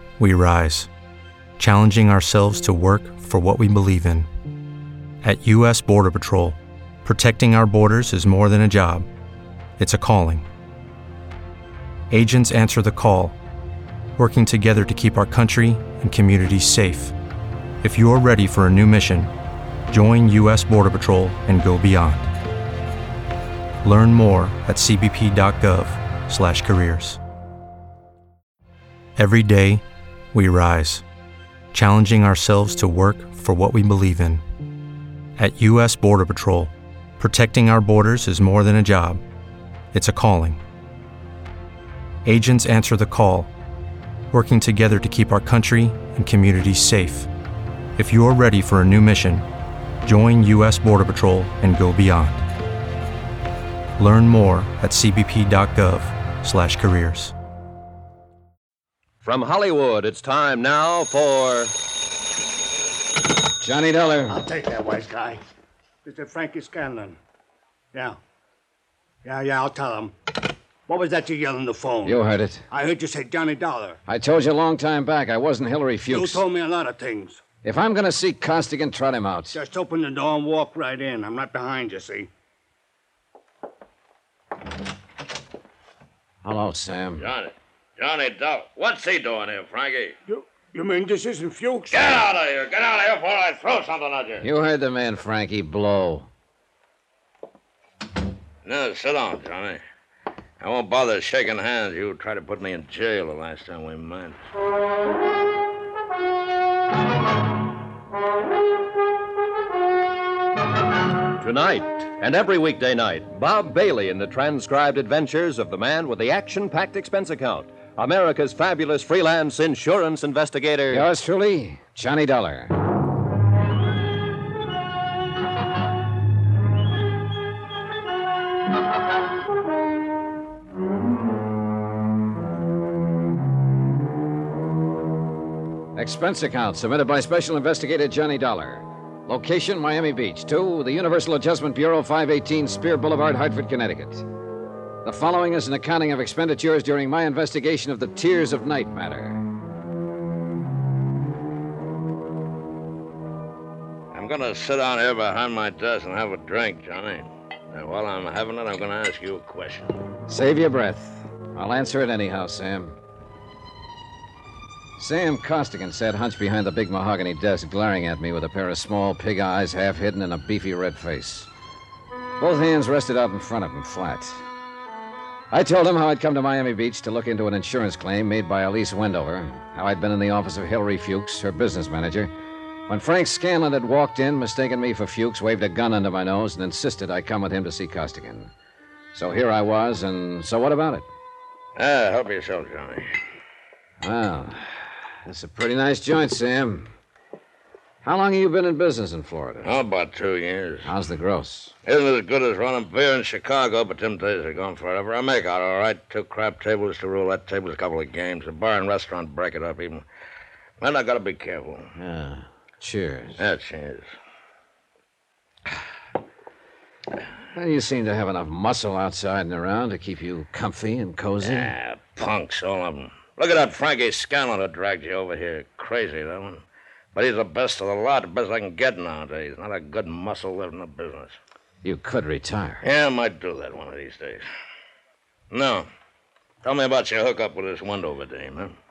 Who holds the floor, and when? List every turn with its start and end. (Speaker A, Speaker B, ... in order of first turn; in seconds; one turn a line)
Speaker A: 0.2-0.9
Speaker A: 1.6-4.3
Speaker A: 5.2-9.1
Speaker A: 9.8-10.4
Speaker A: 12.1-13.3
Speaker A: 14.2-17.1
Speaker A: 17.8-19.3
Speaker A: 19.9-22.3
Speaker A: 23.8-27.2
Speaker A: 29.2-31.0
Speaker A: 31.7-34.4
Speaker A: 35.4-39.2
Speaker A: 39.9-40.6
Speaker A: 42.2-43.5
Speaker A: 44.3-47.3
Speaker A: 48.0-49.4
Speaker A: 50.0-52.4
Speaker A: 54.0-57.3
Speaker B: 63.6-64.4
Speaker C: 64.3-65.4
Speaker C: 66.0-67.2
Speaker C: 67.9-68.2
Speaker C: 69.2-70.1
Speaker C: 70.9-74.0
Speaker B: 72.0-72.7
Speaker B: 74.1-76.4
Speaker C: 76.1-77.4
Speaker B: 77.6-79.6
Speaker C: 79.5-82.3
Speaker B: 86.4-87.2
Speaker D: 87.2-90.1
Speaker C: 90.3-92.3
Speaker D: 91.9-94.5
Speaker B: 94.4-96.3
Speaker D: 98.6-99.8
Speaker D: 100.6-104.4
Speaker E: 114.0-116.3
Speaker E: 118.1-120.5
Speaker B: 120.9-122.7
Speaker B: 135.9-144.2
Speaker B: 145.0-149.4
Speaker D: 154.1-160.0
Speaker B: 160.3-163.0
Speaker B: 165.0-171.5
Speaker B: 172.4-174.4
Speaker B: 175.5-182.3
Speaker B: 182.9-188.5
Speaker B: 189.1-191.1
Speaker D: 191.8-193.1
Speaker B: 194.0-196.9
Speaker B: 198.0-199.7
Speaker D: 199.6-200.9
Speaker B: 200.8-201.7
Speaker D: 201.8-210.0
Speaker D: 210.8-211.9
Speaker B: 212.0-213.4
Speaker D: 213.4-214.1
Speaker B: 217.5-221.7
Speaker D: 221.4-226.6
Speaker D: 227.1-231.3
Speaker B: 231.8-232.8
Speaker D: 232.8-234.4
Speaker D: 235.5-235.8
Speaker D: 236.6-238.7